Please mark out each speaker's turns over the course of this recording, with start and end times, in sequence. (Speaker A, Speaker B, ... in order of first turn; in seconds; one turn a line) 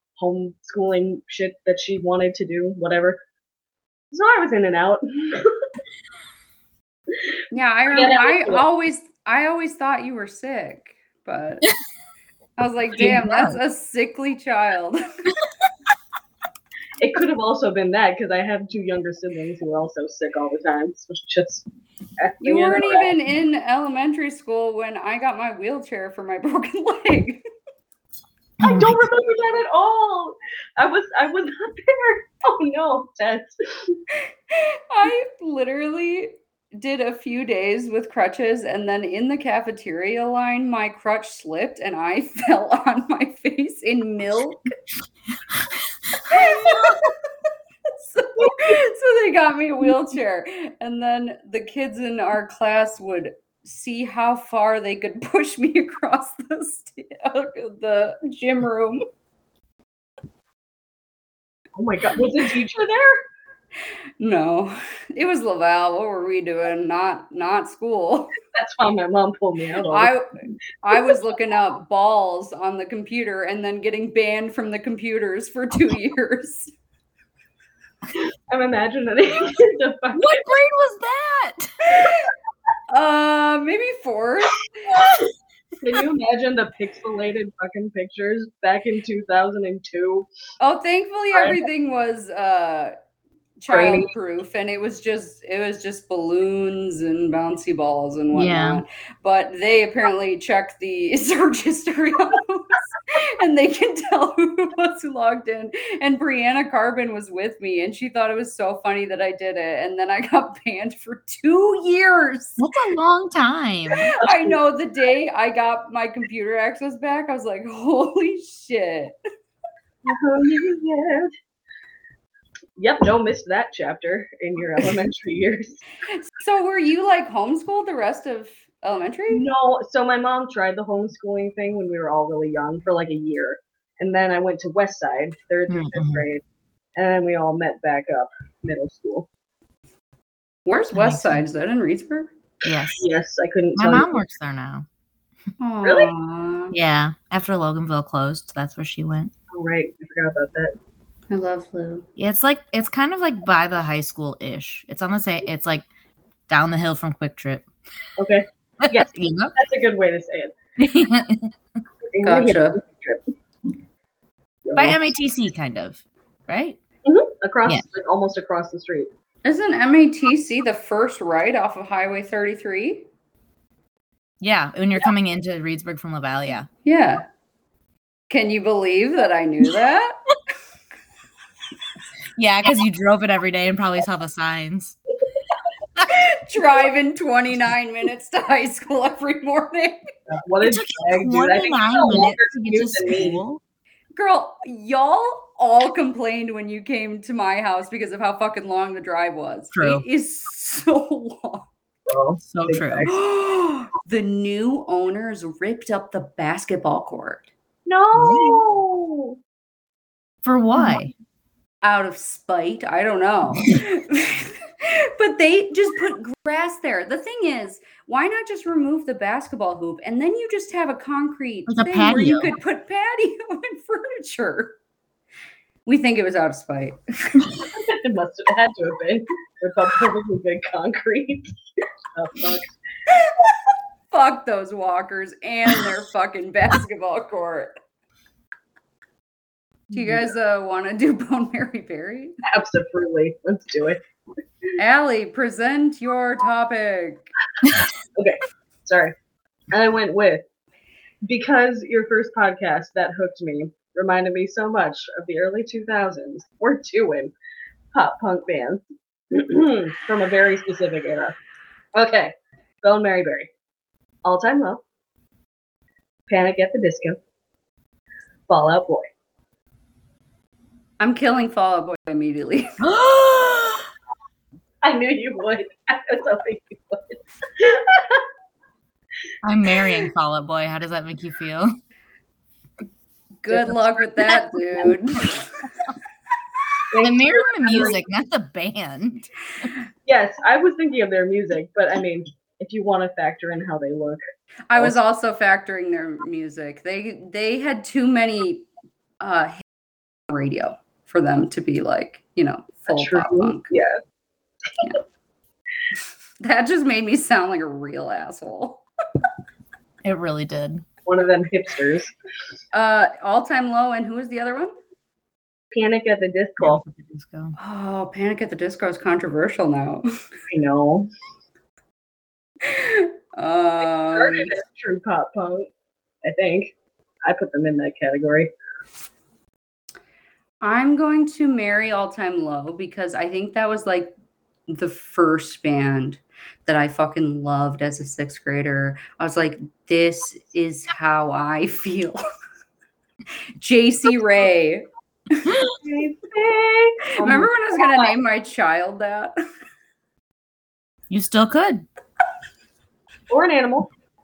Speaker A: 0.2-3.2
Speaker A: 4.1-5.6
Speaker B: 7.5-11.7
Speaker A: 7.9-8.6
Speaker B: 12.6-15.0
Speaker C: 13.1-13.6
Speaker A: 17.0-21.7
Speaker A: 22.2-23.1
Speaker B: 22.4-27.4
Speaker C: 28.6-29.0
Speaker A: 28.6-34.0
Speaker B: 34.5-44.7
Speaker B: 46.3-47.1
Speaker B: 48.0-59.0
Speaker A: 48.4-48.8
Speaker A: 61.8-63.2
Speaker B: 64.2-68.4
Speaker A: 68.5-70.1
Speaker B: 69.9-70.3
Speaker B: 70.8-76.7
Speaker A: 78.5-80.4
Speaker C: 80.1-81.7
Speaker B: 81.9-82.3
Speaker B: 82.9-85.0
Speaker A: 85.8-90.3
Speaker B: 90.6-92.9
Speaker A: 91.3-91.6
Speaker B: 93.6-112.6
Speaker A: 93.7-94.1
Speaker C: 98.3-98.8
Speaker C: 112.6-114.1
Speaker B: 113.9-119.2
Speaker A: 114.2-114.6
Speaker A: 120.0-121.3
Speaker A: 122.8-125.8
Speaker B: 126.1-129.4
Speaker A: 129.3-136.4
Speaker C: 135.7-136.3
Speaker A: 137.0-139.3
Speaker B: 140.7-142.3
Speaker C: 140.9-141.4
Speaker C: 142.7-143.1
Speaker A: 142.9-144.1
Speaker C: 143.8-144.9
Speaker B: 145.6-146.8
Speaker A: 145.8-146.1
Speaker C: 146.7-149.3
Speaker A: 149.5-150.8
Speaker B: 151.3-152.1
Speaker C: 152.2-155.9
Speaker C: 156.5-157.7
Speaker A: 158.2-160.6
Speaker C: 158.8-159.6
Speaker C: 160.8-161.6
Speaker A: 162.1-163.3
Speaker B: 162.2-162.8
Speaker A: 164.7-165.0
Speaker C: 164.8-166.8
Speaker A: 167.1-169.1
Speaker B: 169.4-173.1
Speaker C: 174.4-176.7
Speaker B: 176.8-177.2
Speaker B: 178.3-180.1
Speaker C: 182.4-185.0
Speaker B: 186.1-190.0
Speaker A: 190.3-193.4
Speaker C: 190.6-193.6
Speaker B: 194.2-201.7
Speaker C: 199.7-200.0
Speaker A: 202.1-203.1
Speaker C: 202.4-203.1
Speaker B: 203.1-207.5
Speaker A: 207.9-209.4
Speaker C: 208.1-208.6
Speaker C: 210.4-211.1
Speaker B: 211.8-224.8
Speaker C: 221.7-222.5
Speaker B: 225.9-227.5
Speaker A: 227.8-231.5
Speaker A: 232.1-232.7
Speaker B: 234.1-237.7
Speaker C: 239.9-240.3
Speaker B: 239.9-242.4
Speaker A: 242.4-244.0
Speaker B: 244.8-247.3
Speaker A: 248.2-249.1
Speaker A: 249.7-250.4
Speaker A: 251.2-257.3
Speaker A: 257.9-261.4
Speaker A: 261.9-263.5
Speaker A: 264.2-264.8
Speaker A: 266.3-267.2
Speaker A: 268.5-269.1
Speaker B: 271.0-272.8
Speaker C: 272.8-273.9
Speaker A: 274.8-278.2
Speaker C: 279.4-281.8
Speaker B: 283.4-285.5
Speaker A: 286.9-288.0
Speaker C: 287.0-289.7
Speaker A: 290.1-294.2
Speaker B: 294.7-298.7
Speaker B: 299.2-299.6
Speaker B: 300.3-303.7
Speaker A: 302.9-304.0
Speaker B: 306.4-308.8
Speaker C: 310.0-310.9
Speaker A: 311.1-312.1
Speaker B: 312.7-314.7
Speaker A: 315.7-316.8
Speaker C: 316.6-317.6
Speaker B: 317.6-320.1
Speaker A: 320.5-321.1
Speaker B: 322.6-324.5
Speaker A: 324.1-325.7
Speaker A: 326.2-326.7
Speaker A: 327.3-328.5
Speaker B: 330.6-334.1
Speaker B: 334.7-342.2
Speaker B: 343.6-345.5
Speaker A: 345.8-348.1
Speaker B: 347.2-349.3
Speaker C: 351.1-351.9
Speaker A: 353.3-353.9